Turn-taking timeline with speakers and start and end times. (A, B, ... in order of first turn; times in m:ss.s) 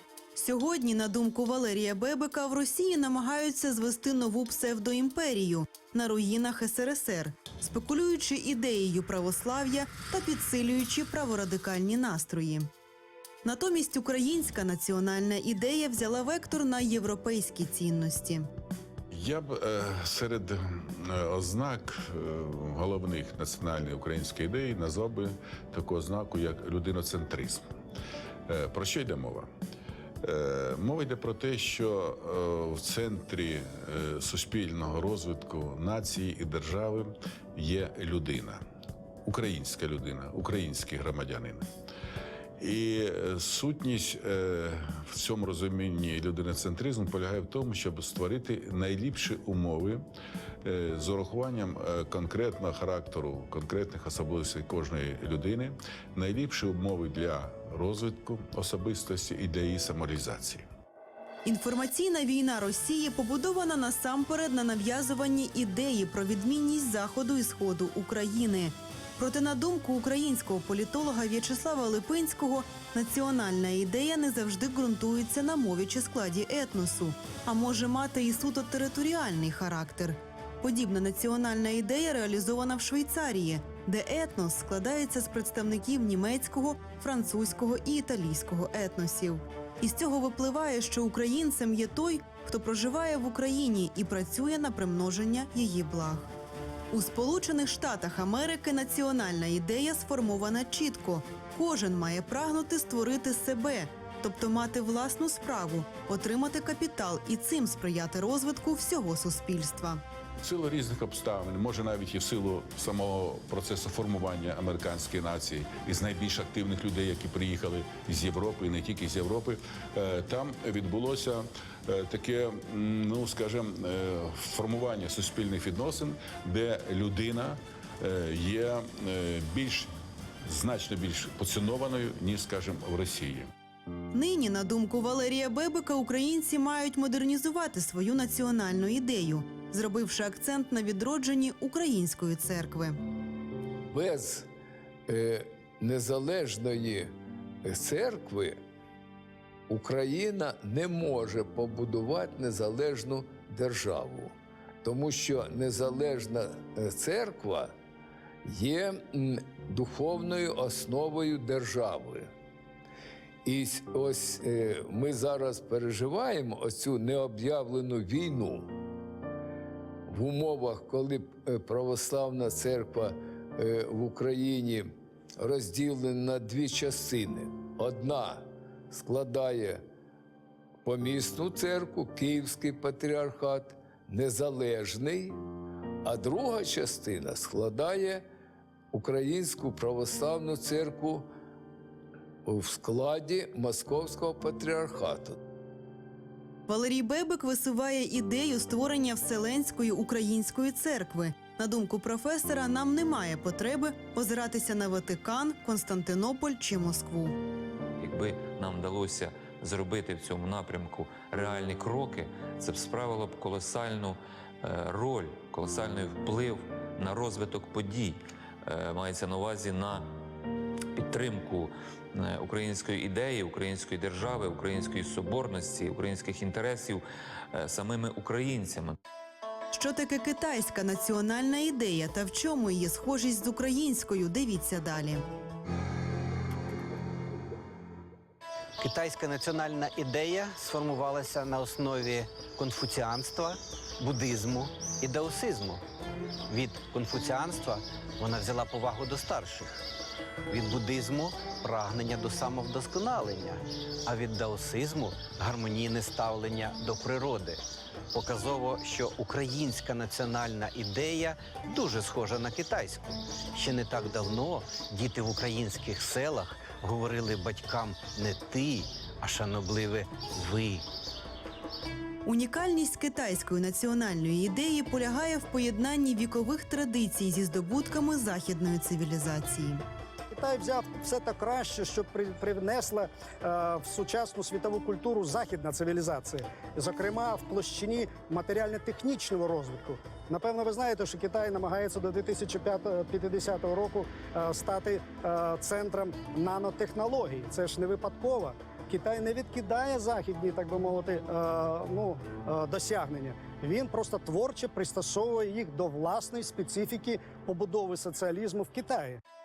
0:00.3-0:12.7 A
0:13.4-0:18.5 A
0:19.1-0:27.6 B
0:28.5-0:29.5 B
0:30.2-0:38.6 B
0:39.2-0:41.6 B
0:42.6-0:50.0 B
0:50.6-1:00.6 B
1:01.4-1:36.3 A
1:36.9-1:50.0 A
1:50.4-2:09.9 B
2:10.4-2:13.5 B
2:14.1-2:23.0 A
2:23.9-2:24.5 C
2:25.1-2:28.6 C
2:29.7-2:37.7 C
2:38.4-2:42.3 C
2:43.4-2:48.7 C
2:50.1-2:59.8 C
3:00.8-3:05.4 C
3:06.0-3:08.2 C
3:08.9-3:11.3 C
3:12.4-3:15.4 C
3:16.7-3:27.4 A
3:28.0-3:40.1 D
3:40.9-3:49.0 D
3:49.7-3:55.2 A
3:58.8-4:05.8 E
4:06.5-4:09.8 E
4:10.5-4:17.6 E
4:18.1-4:30.8 E
4:32.2-4:39.8 A
4:40.3-5:09.2 F